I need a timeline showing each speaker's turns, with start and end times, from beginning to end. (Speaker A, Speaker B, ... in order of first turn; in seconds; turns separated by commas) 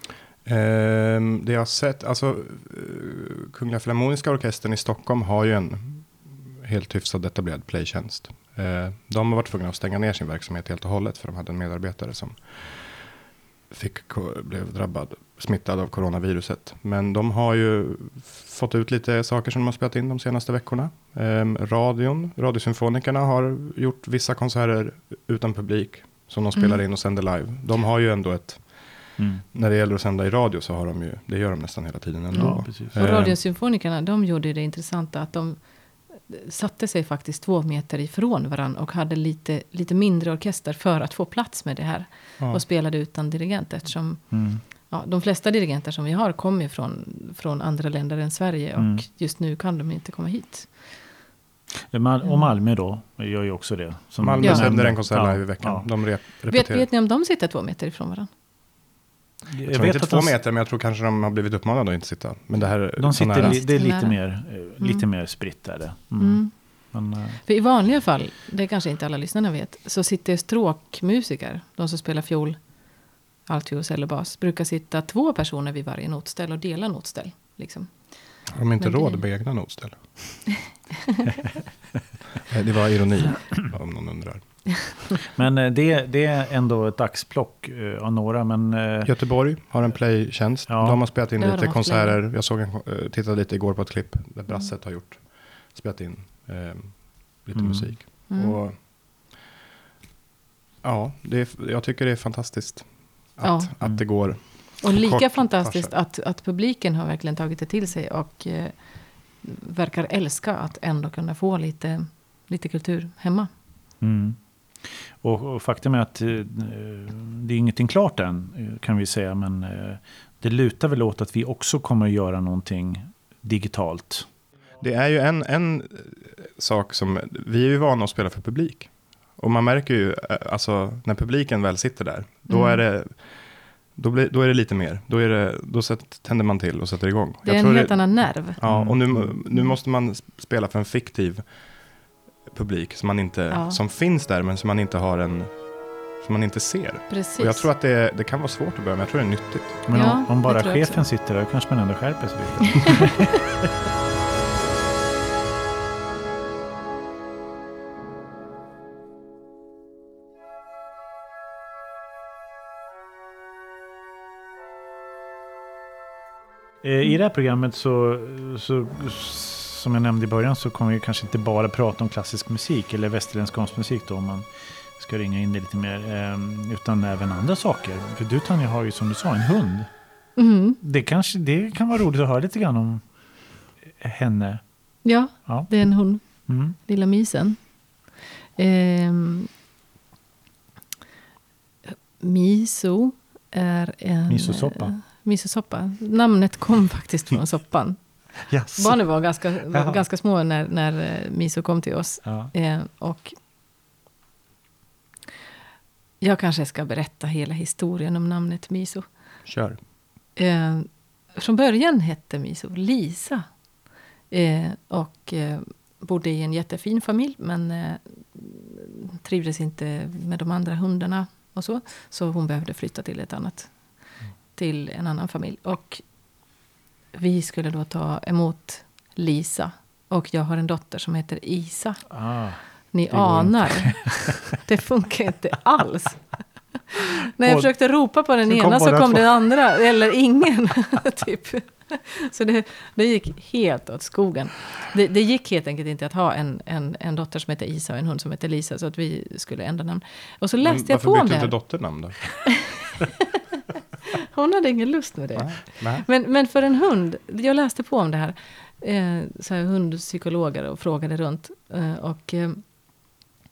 Speaker A: 0.4-13.1, Speaker A: 13.7-33.4, Speaker B: 29.2-29.4, Speaker C: 32.3-51.0, Speaker B: 32.4-33.0, Speaker B: 44.3-44.6, Speaker B: 48.8-49.0, Speaker B: 51.9-55.9, Speaker A: 54.2-56.9, Speaker C: 54.4-54.7, Speaker C: 56.5-58.3, Speaker B: 59.5-60.4, Speaker A: 59.7-63.6, Speaker B: 63.0-67.4, Speaker C: 63.3-65.0, Speaker C: 66.2-66.9, Speaker C: 67.4-72.9, Speaker C: 73.4-79.2, Speaker A: 78.5-80.5, Speaker A: 82.5-85.0, Speaker B: 85.3-89.1, Speaker A: 89.0-98.8, Speaker B: 90.7-91.0, Speaker C: 91.4-92.2, Speaker B: 97.5-97.9, Speaker C: 98.3-98.6, Speaker A: 100.8-105.9, Speaker C: 103.4-113.5, Speaker B: 114.0-124.3, Speaker A: 124.8-141.7, Speaker C: 132.5-132.8, Speaker C: 137.4-138.6, Speaker B: 138.6-139.3, Speaker A: 142.4-149.8, Speaker C: 143.5-143.8, Speaker C: 147.1-147.7, Speaker B: 149.8-153.3, Speaker C: 149.9-151.0, Speaker B: 166.8-180.1, Speaker C: 180.3-180.8, Speaker B: 180.8-183.2, Speaker B: 183.9-184.6, Speaker C: 185.0-187.9, Speaker B: 185.4-186.8, Speaker C: 188.6-189.5, Speaker C: 191.9-203.3, Speaker B: 194.3-195.0, Speaker B: 198.5-200.0, Speaker B: 202.2-202.5, Speaker C: 206.2-209.1, Speaker A: 209.4-209.8, Speaker C: 210.3-213.4, Speaker C: 214.3-224.0, Speaker C: 224.5-226.0, Speaker C: 227.1-253.2, Speaker B: 232.1-234.4, Speaker B: 237.4-237.7, Speaker B: 238.4-239.6, Speaker A: 250.6-252.8, Speaker C: 254.1-262.6, Speaker A: 255.3-256.0